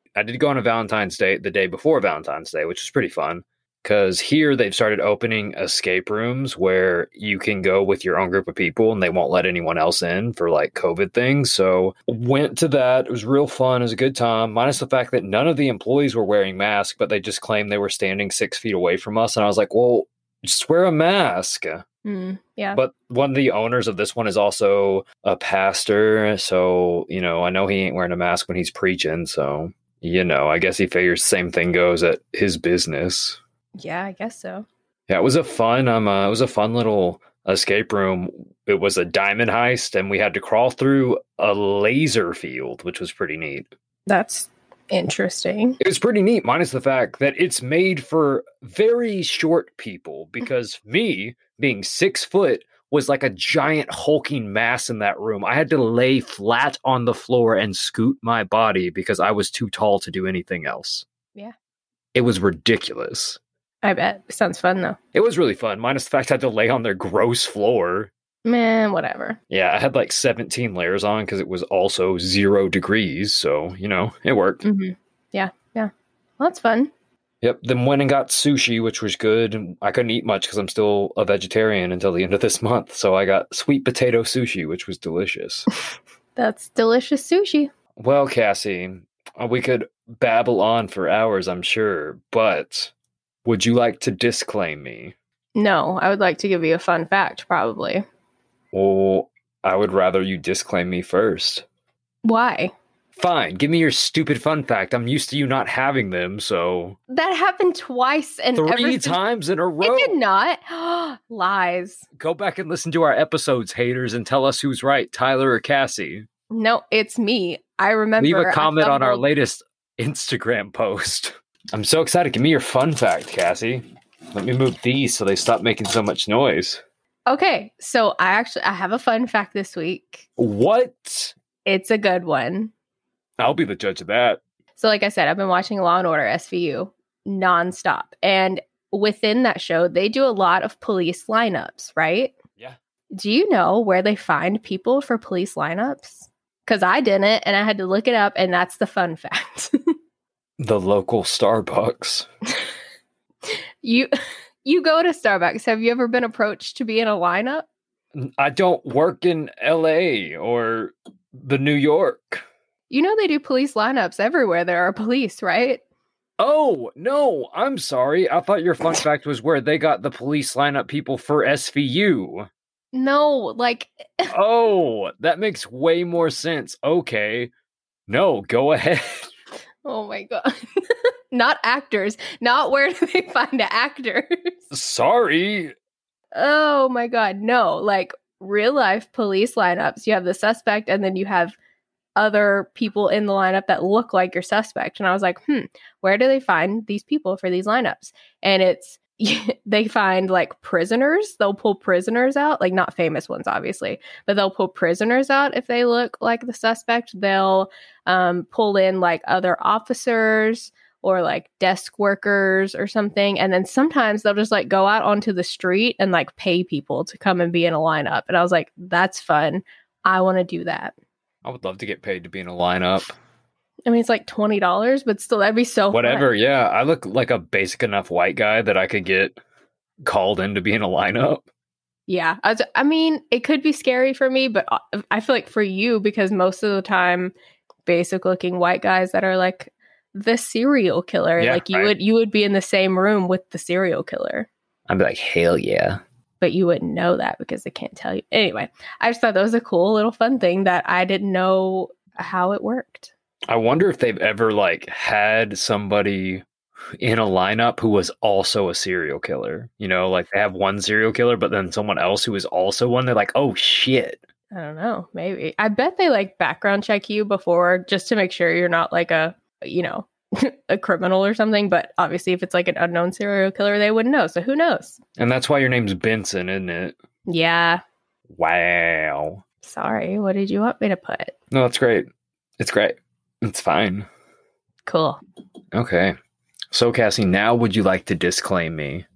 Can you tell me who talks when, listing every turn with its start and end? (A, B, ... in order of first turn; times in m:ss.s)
0:00.2-0:21.8 A
0:22.0-0:22.8 B
0:22.7-0:33.4 A
0:33.8-0:34.7 B
0:35.1-0:43.7 A
0:44.1-0:45.8 B
0:45.8-1:01.1 A
1:02.1-1:03.4 A
1:03.8-1:05.0 B
1:05.1-1:08.1 A
1:08.4-1:09.4 B
1:09.5-1:14.6 A
1:14.6-1:16.9 B
1:17.4-1:25.7 A
1:26.4-1:27.7 B
1:28.0-1:32.9 A
1:33.4-1:35.2 A
1:35.6-1:38.0 B
1:38.7-1:41.6 A
1:42.2-1:42.7 B
1:43.2-1:47.0 A
1:47.1-1:49.2 B
1:48.6-1:50.2 A
1:49.8-1:52.1 B
1:52.2-1:56.3 A
1:56.5-1:59.2 B
1:58.2-2:06.8 A
2:07.3-2:10.3 B
2:10.4-2:11.4 A
2:11.6-2:12.7 B
2:13.4-2:14.4 A
2:14.8-2:22.4 B
2:23.1-2:29.7 B
2:30.6-2:32.3 A
2:33.5-2:34.1 B
2:34.6-2:37.6 B
2:38.1-2:42.4 A
2:42.9-2:45.8 B
2:46.4-2:52.5 A
2:52.9-2:54.3 B
2:54.3-2:57.5 A
2:58.1-2:59.3 A
2:59.8-3:00.5 B
3:01.3-3:04.5 B
3:04.7-3:05.7 A
3:06.3-3:11.6 B
3:12.2-3:41.0 B
3:41.4-3:43.1 A
3:43.9-3:46.3 B
3:45.9-3:49.4 A
3:50.0-3:51.4 A
3:52.1-3:57.3 B
3:57.9-4:04.5 B
4:01.4-4:01.9 A
4:04.9-4:06.0 A
4:06.4-4:13.1 B
4:13.5-4:16.4 A
4:17.0-4:24.2 A
4:24.5-4:35.0 B
4:35.2-4:37.0 A
4:37.3-4:37.8 B
4:38.3-4:39.4 A
4:39.6-4:41.4 B
4:41.5-4:42.1 A
4:42.6-4:44.1 A
4:44.9-4:45.2 B
4:45.7-4:46.2 A
4:46.7-4:49.1 A